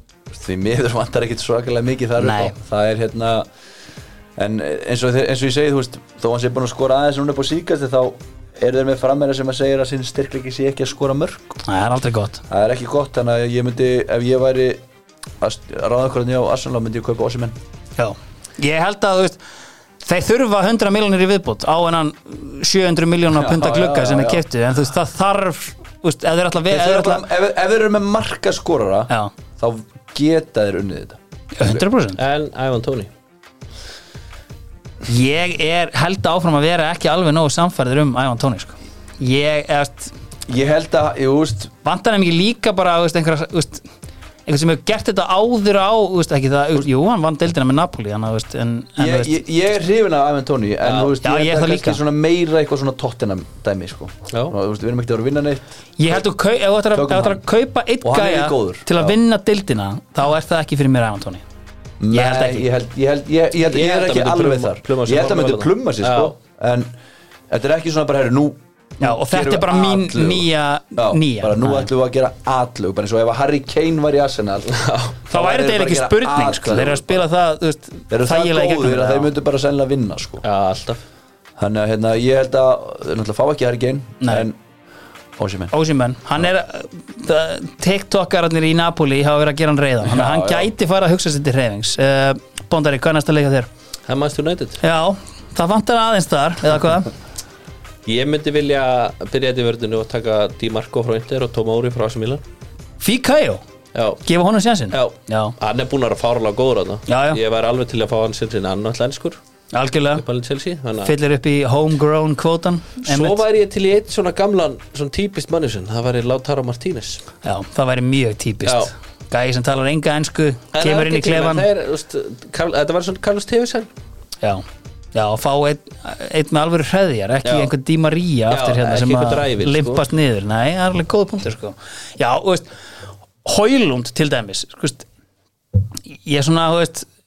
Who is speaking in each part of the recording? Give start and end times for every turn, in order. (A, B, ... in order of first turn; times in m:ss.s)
0:00.3-0:03.5 A
0:02.2-0:02.5 B
0:04.4-0:11.6 A
0:11.6-0:12.4 B
0:12.5-0:14.8 A
0:15.4-0:17.6 A
0:18.0-0:19.4 B
0:20.0-0:27.2 B
0:23.3-0:24.4 A
0:26.7-0:31.8 A
0:31.5-0:32.2 B
0:32.2-0:33.1 C
0:35.0-0:40.1 B
0:40.5-0:41.7 A
0:41.8-0:43.8 B
0:44.4-0:49.4 B
0:49.0-0:56.2 A
0:50.8-0:51.1 C
0:51.2-0:52.0 B
0:56.0-1:01.4 B
0:56.9-0:57.4 A
0:58.0-0:59.2 A
1:02.0-1:06.9 A
1:02.1-1:02.7 B
1:03.7-1:06.3 C
1:07.5-1:17.2 A
1:09.0-1:11.9 B
1:14.7-1:15.1 C
1:15.3-1:19.3 B
1:18.1-1:20.4 A
1:20.4-1:21.0 C
1:21.6-1:24.6 A
1:24.2-1:24.5 B
1:25.4-1:25.7 A
1:25.7-1:33.7 B
1:30.0-1:30.7 A
1:34.1-1:34.8 C
1:34.8-1:37.1 B
1:38.0-1:42.4 C
1:43.0-1:43.6 B
1:43.9-1:44.2 C
1:44.2-1:45.5 B
1:44.9-1:49.4 C
1:47.1-1:47.4 B
1:49.7-1:50.2 B
1:50.1-1:51.1 C
1:51.0-1:53.4 B
1:53.0-1:57.2 C
1:57.4-2:01.7 B
1:58.6-1:58.9 C
2:00.7-2:03.9 C
2:04.4-2:12.7 B
2:07.4-2:07.7 C
2:08.5-2:10.0 C
2:13.4-2:15.0 B
2:16.1-2:17.1 B